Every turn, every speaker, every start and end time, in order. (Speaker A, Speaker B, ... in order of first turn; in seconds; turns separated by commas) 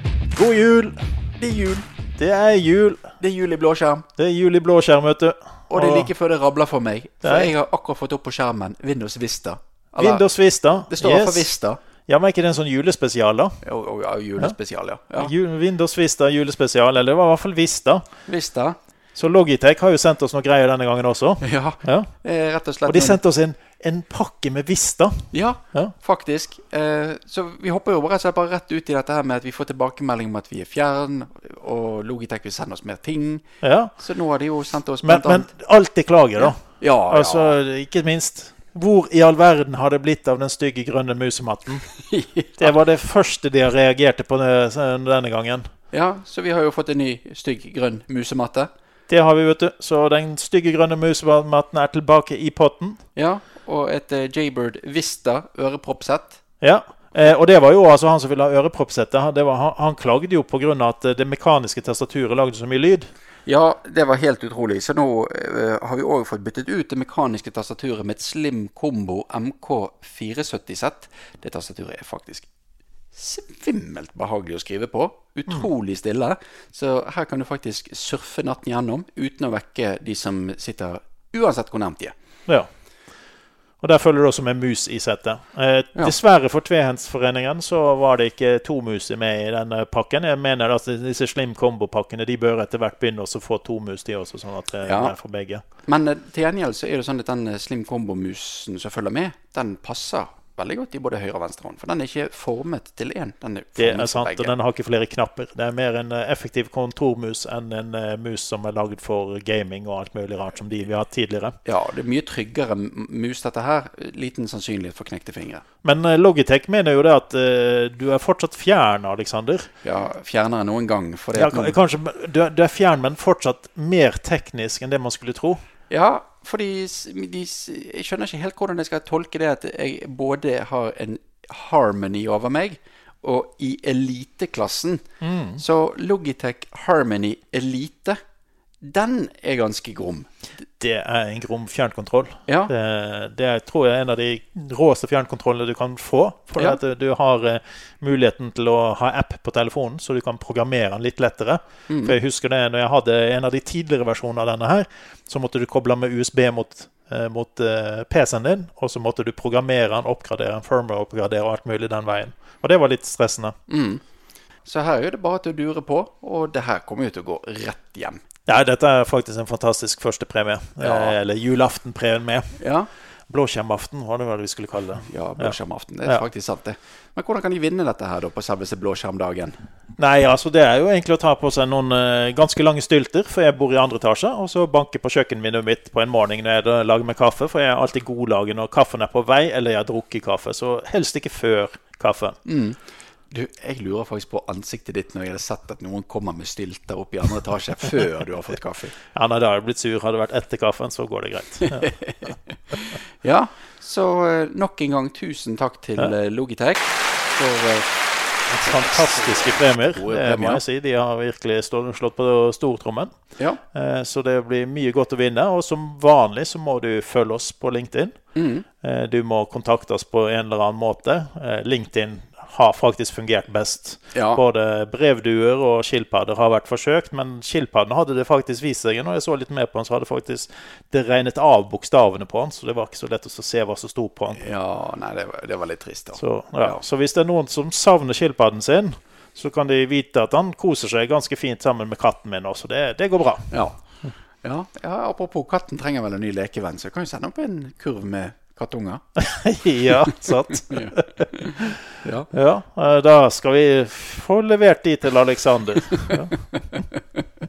Speaker A: 0.3-1.0, Speaker B: 1.4-1.9, Speaker A: 2.2-3.1, Speaker B: 3.2-4.1, Speaker A: 4.2-6.1, Speaker B: 5.7-10.3, Speaker A: 7.2-7.5, Speaker A: 10.0-11.5, Speaker B: 10.9-11.8, Speaker A: 12.1-13.6, Speaker B: 13.6-15.3, Speaker A: 15.2-18.1, Speaker B: 18.3-18.8, Speaker A: 19.1-22.1, Speaker B: 21.4-23.2, Speaker A: 22.9-25.9, Speaker B: 25.3-33.5, Speaker A: 33.6-33.9, Speaker B: 34.0-35.5, Speaker A: 35.0-41.9, Speaker B: 36.4-37.6, Speaker B: 42.0-42.7, Speaker A: 42.6-45.7, Speaker B: 45.9-48.7, Speaker A: 49.1-53.0, Speaker B: 53.2-56.4, Speaker A: 56.6-63.1, Speaker B: 63.5-72.5, Speaker B: 73.1-82.1, Speaker A: 83.8-95.6, Speaker B: 94.9-95.1, Speaker B: 95.9-104.5, Speaker A: 103.8-111.6, Speaker B: 111.7-115.6, Speaker A: 115.8-119.7, Speaker B: 119.8-121.8, Speaker A: 121.3-125.6, Speaker B: 125.9-135.0, Speaker A: 135.2-135.6, Speaker B: 135.6-138.2, Speaker B: 138.8-140.3, Speaker A: 140.8-163.6, Speaker B: 142.5-142.7, Speaker B: 151.9-152.2, Speaker B: 163.7-164.0, Speaker B: 164.7-168.2, Speaker A: 168.5-172.5, Speaker B: 170.8-171.2, Speaker B: 172.6-172.9, Speaker A: 173.3-176.2, Speaker B: 175.1-179.6, Speaker A: 180.0-192.4, Speaker B: 192.4-192.8, Speaker B: 193.3-198.9, Speaker A: 199.1-201.9, Speaker B: 201.7-207.9, Speaker A: 208.5-213.1, Speaker B: 208.5-210.6, Speaker A: 213.7-218.2, Speaker B: 218.3-218.7, Speaker A: 218.8-234.4, Speaker B: 224.1-224.4, Speaker B: 234.4-236.8, Speaker A: 236.2-243.5, Speaker B: 243.5-243.8, Speaker B: 244.4-249.0, Speaker A: 249.2-251.8, Speaker B: 249.9-252.3, Speaker A: 252.3-256.3, Speaker B: 256.0-257.2